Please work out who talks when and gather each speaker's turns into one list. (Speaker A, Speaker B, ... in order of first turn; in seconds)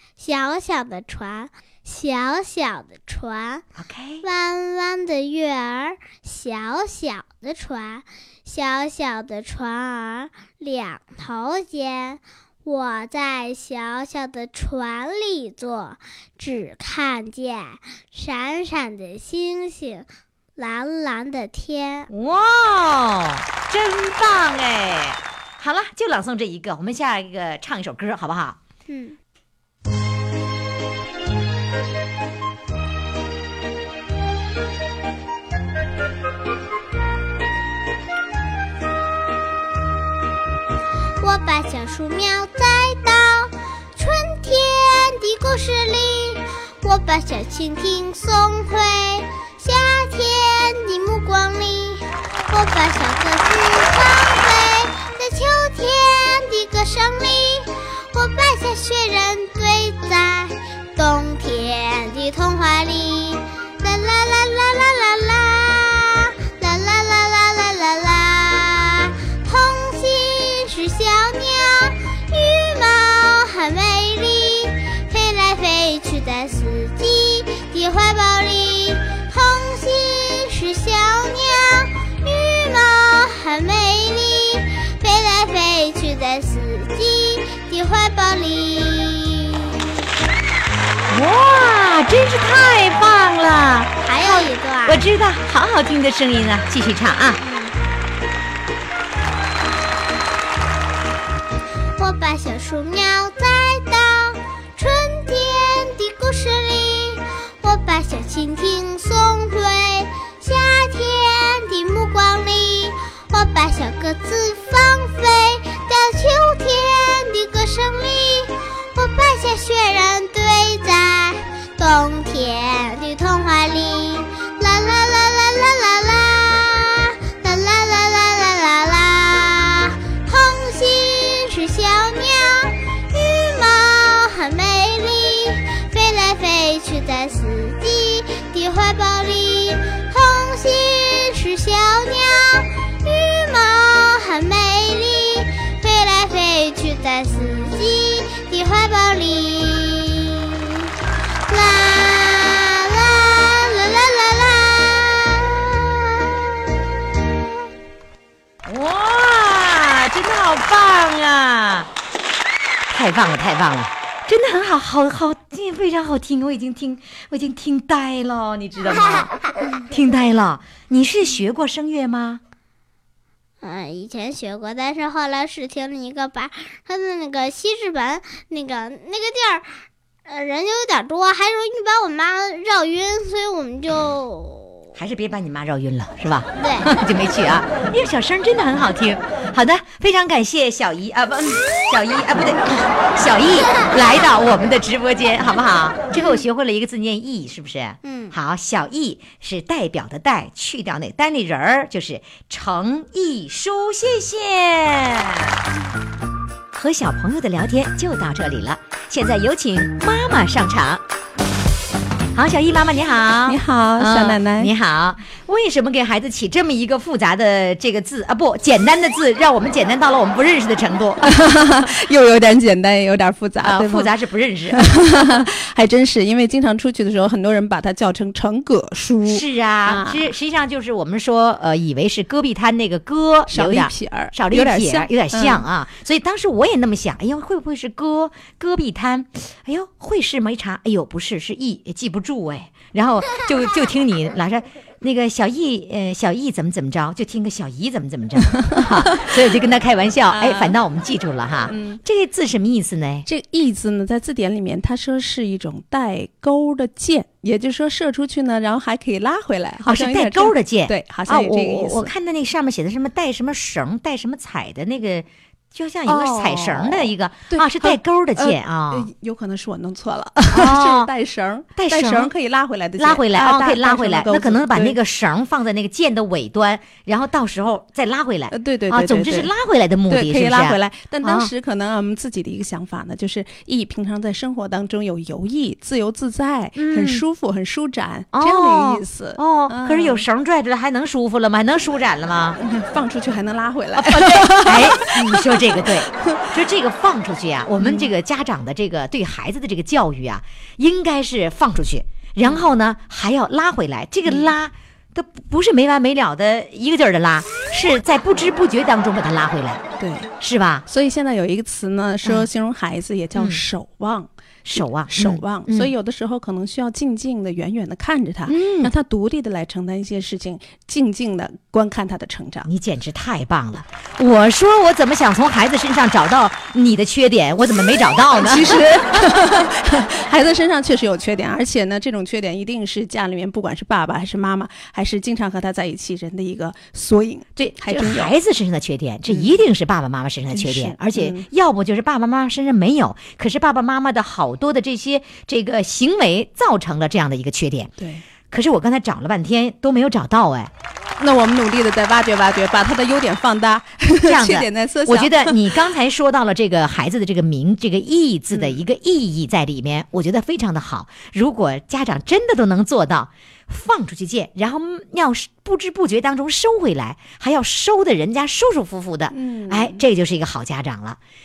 Speaker A: 0.2-3.6, 4.2-22.1, 28.9-29.2, 41.2-89.8, 94.0-95.0, 97.4-97.7, 102.0-150.9, 151.5-156.4, 173.6-184.9, 186.6-186.9, 198.0-198.3
Speaker B: 3.8-4.2, 22.1-28.6, 91.1-97.4, 158.6-161.9, 162.9-169.3, 169.9-172.4, 185.0-205.6, 206.7-211.0, 212.3-221.3, 223.6-225.4, 229.2-253.3, 259.8-269.1, 270.5-271.1, 271.8-272.3, 273.0-281.5, 286.8-287.2, 288.3-292.6, 293.9-309.8, 310.4-310.9, 313.4-313.6, 314.7-315.9, 318.5-318.9, 322.6-328.9, 337.6-347.9, 348.5-350.7, 354.2-371.2
Speaker C: 213.5-214.7, 221.2-224.1, 224.7-230.3, 233.5-235.7, 248.6-249.4, 250.3-250.8, 251.7-252.0, 253.3-262.1, 266.1-275.0, 278.5-279.5, 280.1-290.2, 292.6-296.5, 297.8-298.1, 304.3-304.5, 310.0-310.3, 310.9-322.7, 328.4-338.3, 339.3-339.6, 340.5-341.5, 348.0-348.2, 351.2-355.9, 358.5-358.8, 369.3-370.0